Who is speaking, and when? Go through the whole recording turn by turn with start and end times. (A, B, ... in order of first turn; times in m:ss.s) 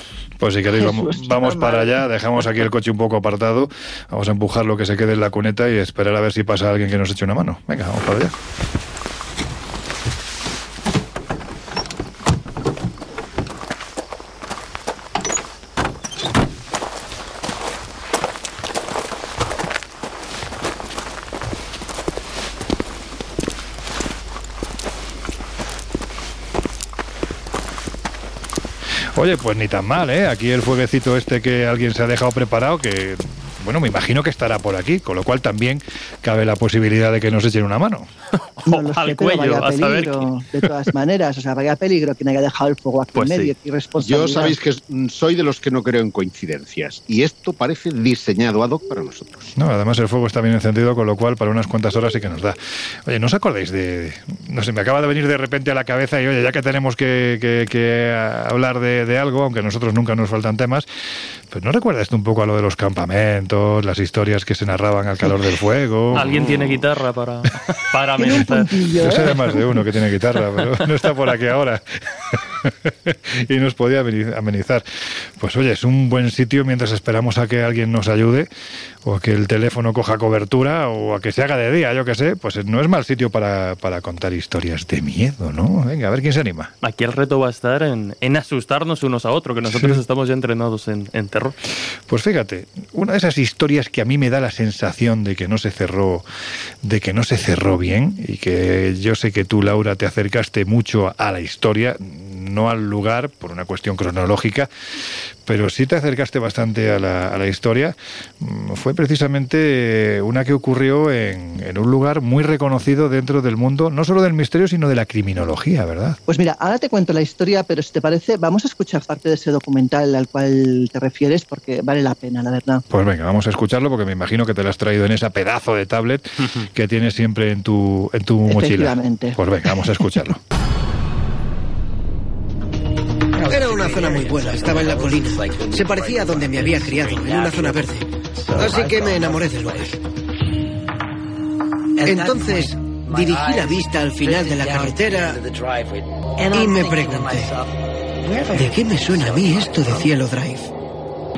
0:00.4-0:08.4 A
0:00.7-0:02.0 B
0:29.1-0:38.1 A
0:38.6-0:40.3 C
0:38.7-0:44.6 B
0:43.2-0:43.5 C
0:44.0-0:49.5 D
0:49.6-1:00.9 A
1:01.5-1:06.8 A
1:06.1-1:08.7 C
1:08.2-1:09.7 B
1:09.0-1:18.5 A
1:19.0-1:26.7 A
1:26.8-1:31.6 C
1:29.7-1:30.0 A
1:32.1-1:36.3 A
1:36.8-1:44.7 A
1:45.5-1:56.2 A
1:56.3-2:02.8 B
2:02.9-2:10.4 A
2:08.5-2:09.4 B
2:13.4-2:20.0 E
2:22.0-2:25.4 E
2:26.5-2:27.6 E
2:28.5-2:30.7 E